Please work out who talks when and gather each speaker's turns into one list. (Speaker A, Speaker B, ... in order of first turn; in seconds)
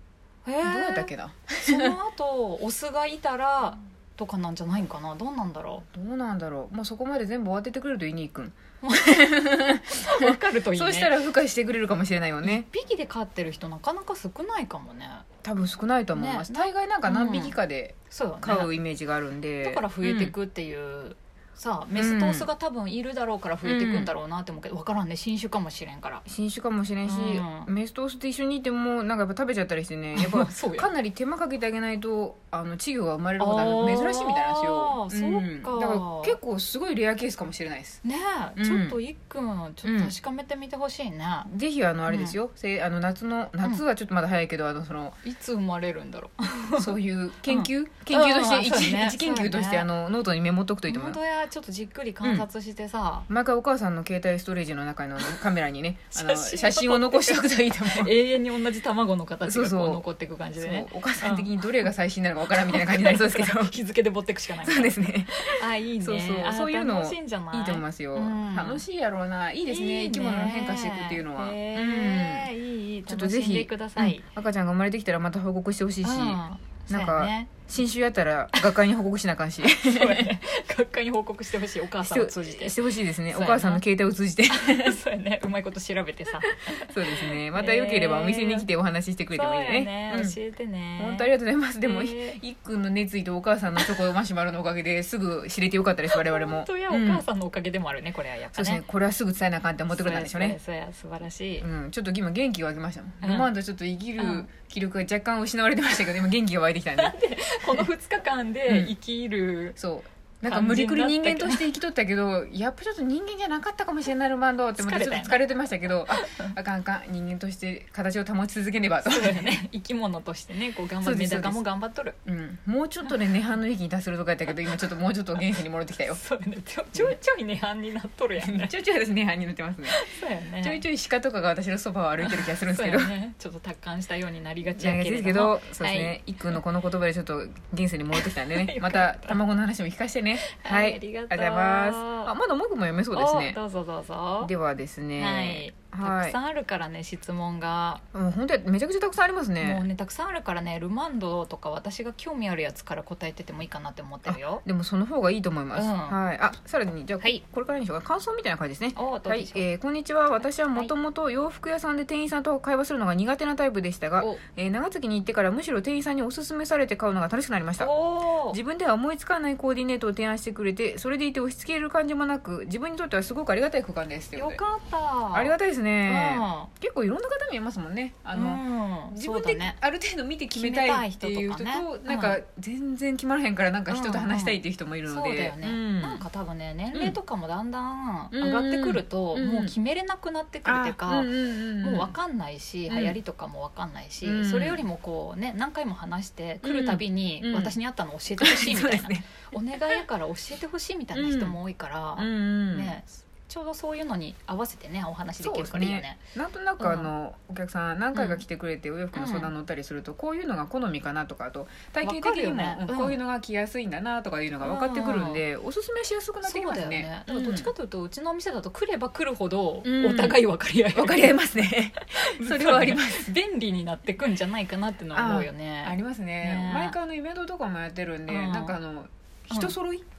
Speaker A: 0.4-5.8, 8.8-11.1, 12.4-15.2, 16.1-17.6, 18.1-18.7, 19.6-26.2, 27.1-27.7, 30.1-30.9, 33.4-36.4, 38.0-41.5, 42.1-42.4, 45.2-46.9, 47.5-49.9, 50.9-53.3, 56.1-61.8, 62.7-68.8, 69.7-74.2, 76.0-77.6, 79.7-83.8, 84.5-88.7, 89.3-91.3, 91.8-92.4, 96.1-98.8, 99.9-101.7, 103.2-103.5, 104.2-104.5, 107.0-109.8, 110.4-111.7, 114.8-115.4, 116.1-116.5, 119.0-122.2, 126.2-128.7, 129.8-130.8, 132.2-136.6, 138.1-139.4, 140.4-142.3, 143.1-144.5, 145.2-148.0, 149.6-154.6, 155.7-156.2, 158.9-159.6, 167.8-168.6, 174.3-175.5, 176.1-176.7, 178.3-179.8, 180.5-182.4, 183.9-206.2, 206.8-207.1, 208.1-208.4, 209.1-209.5, 212.0-213.2, 214.6-215.4, 216.4-221.4, 222.0-226.9, 228.3-228.8
Speaker B: 0.6-2.0, 5.9-12.7, 15.4-20.3, 21.9-22.5, 23.6-24.1, 26.2-38.0, 38.5-39.0, 39.8-40.1, 41.5-45.2, 46.8-51.2, 53.3-58.1, 59.5-60.0, 60.6-63.7, 64.6-72.5, 73.1-80.3, 82.0-85.0, 86.7-90.3, 91.0-97.2, 98.5-100.6, 101.6-107.2, 108.7-108.9, 109.8-119.5, 121.0-121.6, 122.2-126.2, 128.4-130.0, 130.6-133.1, 134.7-143.6, 144.4-146.3, 148.1-149.8, 154.2-167.9, 168.5-174.6, 175.3-186.2, 188.3-189.7, 190.6-192.1, 192.9-193.2, 194.2-194.8, 196.6-197.7, 198.4-199.3, 201.1-201.6, 202.2-202.9, 205.4-217.7, 219.8-220.4, 220.9-223.3, 225.1-230.0